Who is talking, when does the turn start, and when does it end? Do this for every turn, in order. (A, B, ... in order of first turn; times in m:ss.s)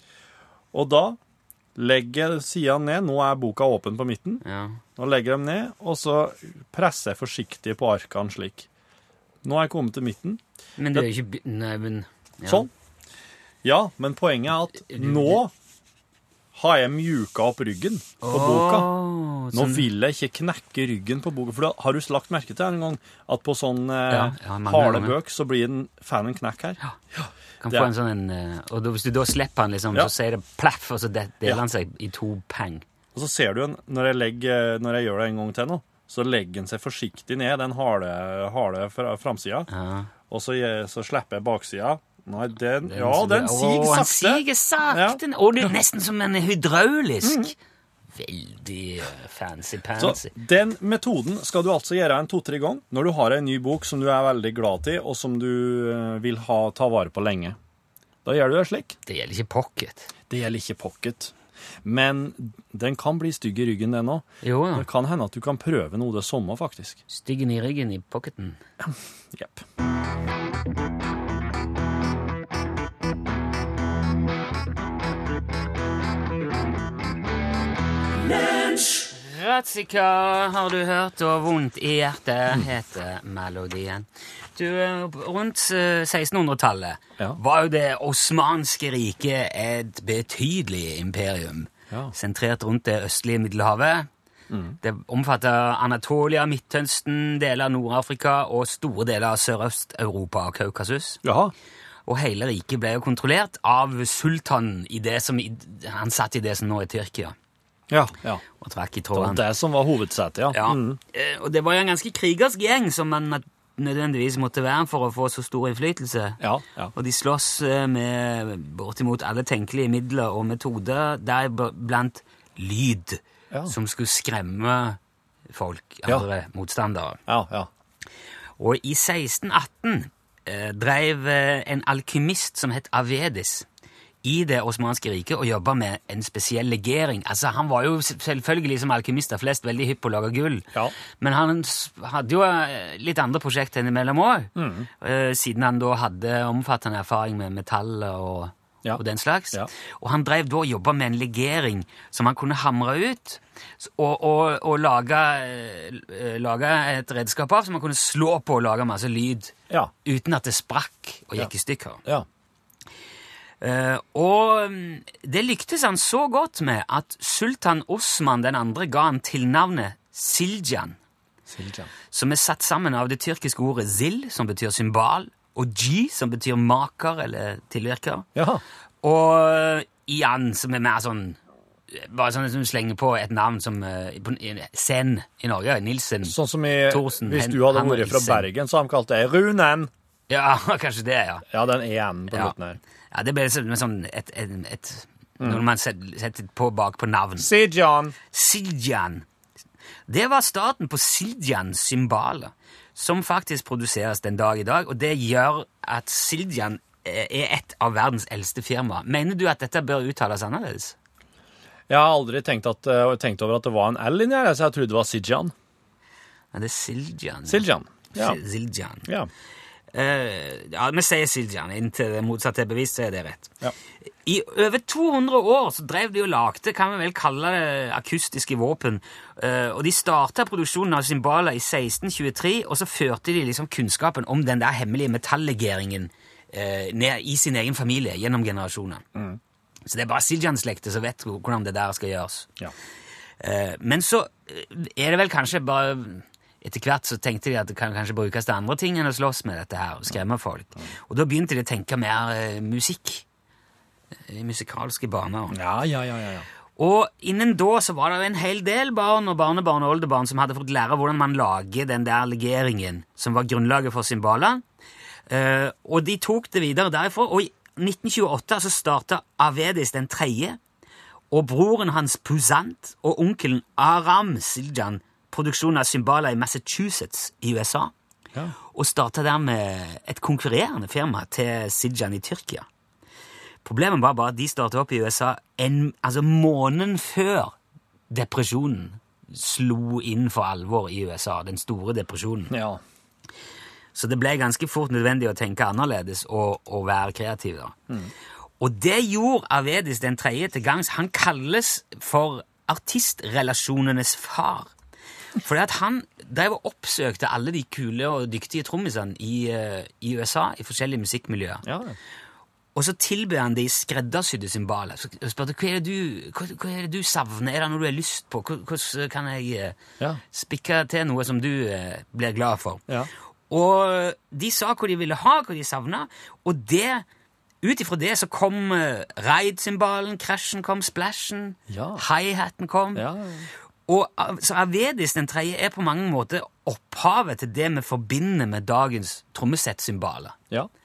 0:00.7-0:01.2 A
0:01.8-0:04.4 A
0:04.4-0:04.8 B
0:05.0-0:08.7 A
0:09.4-0:10.4 A
0:10.8-0:12.7 B
0:13.6-0:15.5 A
0:14.8-0:15.4 B
0:16.5-0:18.9 A
0:18.2-0:19.9 B
0:19.5-0:27.9 A
0:24.1-0:25.2 B
0:27.6-0:32.8 B
0:33.1-0:39.7 A
0:39.7-0:40.1 B
0:40.3-0:45.7 A
0:42.9-0:47.5 B
0:47.2-0:47.5 A
0:48.1-0:50.3 B
0:50.0-0:57.6 A
0:58.2-0:59.0 A
0:59.1-1:00.1 B
1:00.3-1:01.3 A
1:01.8-1:07.0 A
1:04.4-1:04.9 B
1:07.1-1:08.6 B
1:08.8-1:09.6 A
1:18.9-1:34.1 B
1:34.5-1:34.8 A
1:34.8-1:41.2 B
1:41.2-1:41.5 A
1:42.1-1:47.4 B
1:47.9-1:48.4 A
1:48.6-1:49.4 B
1:49.1-1:51.0 A
1:50.5-1:56.4 B
1:56.4-1:56.9 A
1:56.9-2:05.0 B
2:05.5-2:07.2 B
2:07.3-2:07.7 A
2:08.6-2:13.7 B
2:14.2-2:42.0 B
2:24.6-2:24.9 A
2:28.8-2:29.7 A
2:43.6-2:51.0 B
2:51.5-2:51.9 A
2:52.1-2:58.3 B
2:58.4-2:58.6 A
2:59.0-3:01.4 B
3:01.9-3:06.4 B
3:06.2-3:09.9 A
3:06.9-3:08.5 B
3:10.3-3:11.5 B
3:11.5-3:12.8 A
3:13.1-3:17.5 B
3:15.4-3:15.6 A
3:17.4-3:18.2 A
3:18.3-3:19.2 B
3:20.1-3:31.0 B
3:31.9-3:35.5 A
3:36.5-3:39.1 B
3:37.5-3:38.4 A
3:39.9-3:43.5 B
3:44.2-3:59.0 B
3:59.2-3:59.4 A
3:59.9-4:02.5 B
4:03.4-4:13.2 B
4:14.3-4:15.6 B
4:15.5-4:16.5 A
4:16.8-4:24.6 B
4:25.3-4:30.6 B
4:31.3-4:37.9 B
4:38.7-4:42.7 B
4:43.6-4:47.5 B
4:48.1-4:52.5 B
4:52.5-4:52.8 A
4:53.9-4:57.8 B
4:58.6-5:04.7 B
5:05.4-5:11.6 B
5:11.6-5:12.0 A
5:12.8-5:19.8 B
5:20.3-5:22.8 B
5:23.5-5:27.0 B
5:27.6-5:33.1 B
5:31.7-5:32.0 A
5:33.0-5:33.5 A
5:33.9-5:40.4 B